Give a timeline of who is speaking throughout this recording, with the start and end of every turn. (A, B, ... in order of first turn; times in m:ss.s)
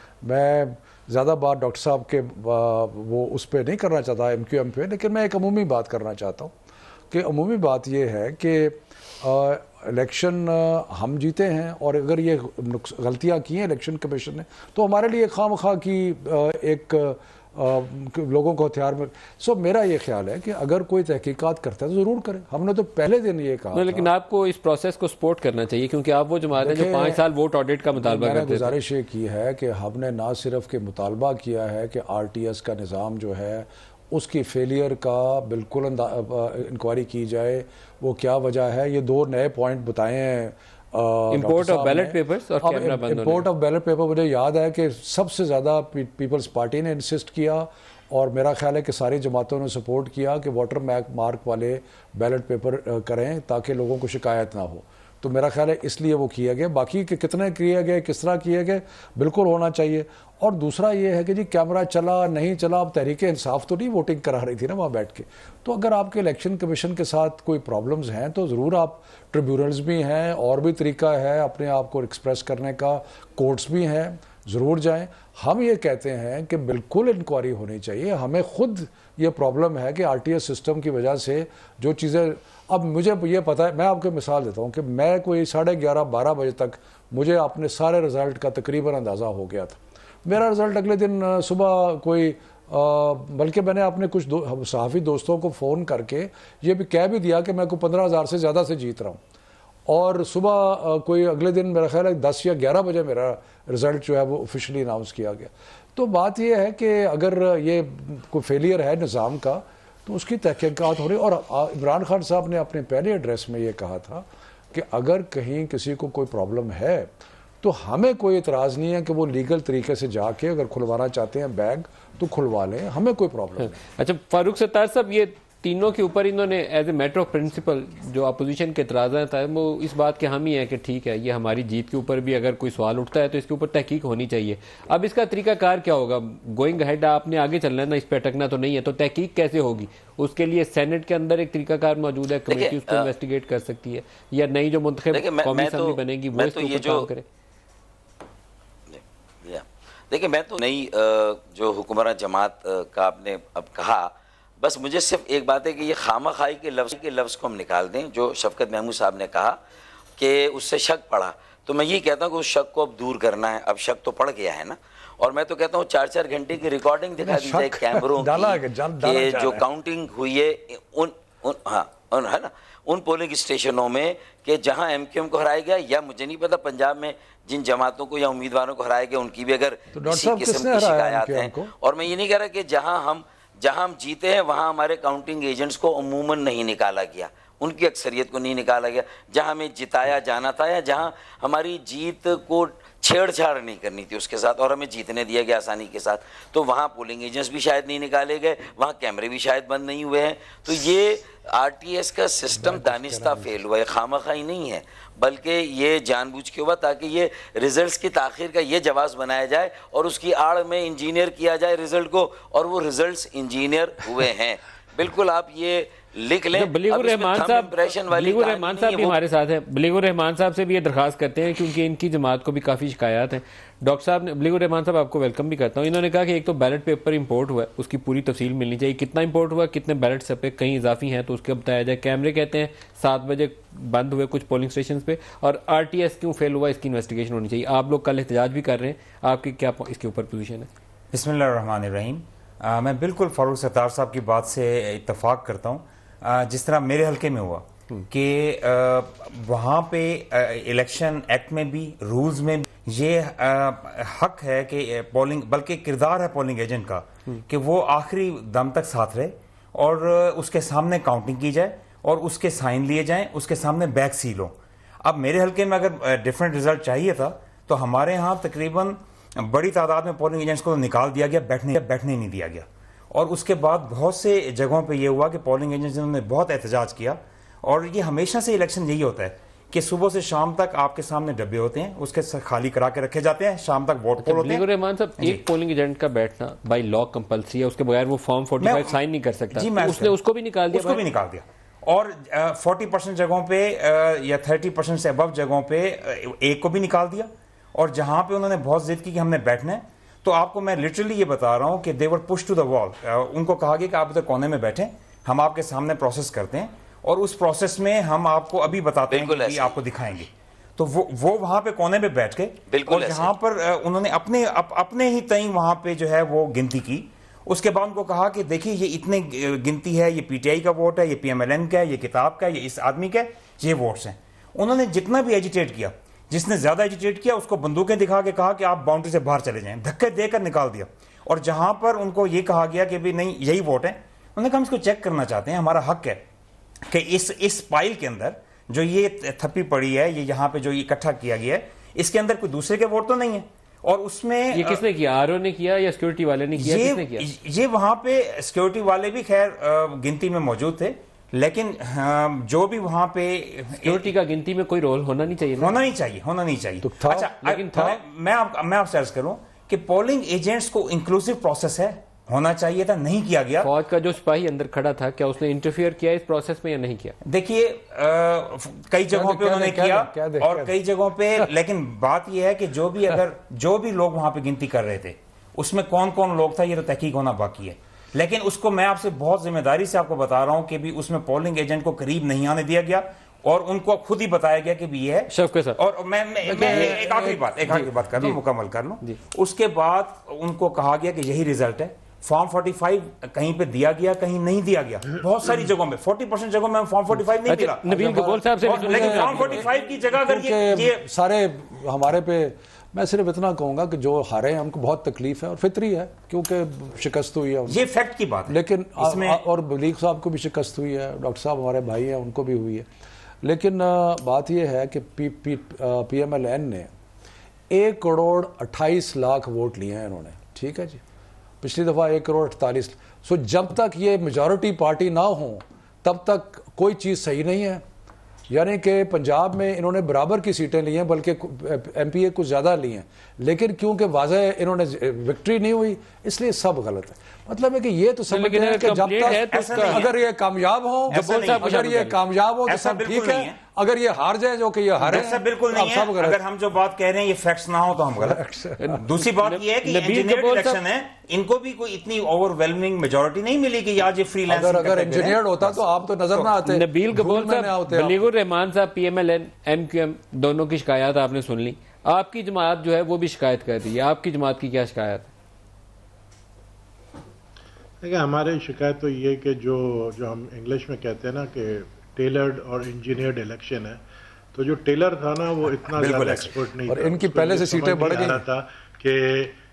0:00.2-0:06.6 A
0:07.1-0:24.1 A
0:23.7-0:28.7 B
0:26.6-0:27.2 A
0:28.0-1:39.2 A
0:41.3-0:43.5 B
1:39.9-2:03.8 A
2:03.6-2:27.2 B
2:22.5-2:23.1 C
2:25.1-2:27.1 C
2:28.9-2:39.6 C
2:40.2-3:39.2 C
2:47.2-2:49.6 A
2:59.9-3:01.7 A
3:22.5-3:23.6 A
3:36.5-4:00.7 B
4:01.1-4:44.6 D
4:44.2-4:51.0 B
4:48.6-4:49.0 D
4:49.5-4:50.2 D
4:50.7-5:36.2 D
5:09.1-5:09.8 C
5:12.7-5:13.3 C
5:36.9-5:44.8 D
5:44.5-5:47.2 B
5:46.6-5:54.1 D
5:53.8-5:55.8 B
5:55.6-6:03.7 D
5:56.8-5:58.0 A
5:57.4-5:58.0 B
6:03.6-6:07.2 B
6:07.2-6:37.9 D
6:09.1-6:10.8 A
6:25.3-6:25.8 B
6:26.4-6:27.5 A
6:26.6-6:26.9 B
6:27.7-6:28.4 B
6:37.5-6:39.7 B
6:37.8-6:47.8 A
6:38.6-6:41.0 D
6:47.7-6:49.4 D
6:48.5-6:52.9 A
6:53.4-6:56.9 A
6:57.7-7:01.0 A
7:01.6-7:07.8 A
7:08.5-7:26.4 A
7:18.3-7:20.0 B
7:19.3-7:20.1 D
7:21.1-7:21.8 D
7:21.1-7:22.2 B
7:22.7-7:23.6 D
7:25.0-7:35.8 D
7:28.1-7:29.0 A
7:28.8-7:30.8 B
7:34.5-7:38.2 A
7:36.6-7:45.3 B
7:48.0-7:54.0 E
7:54.5-7:59.6 E
7:55.9-7:56.5 D
7:56.9-7:58.4 A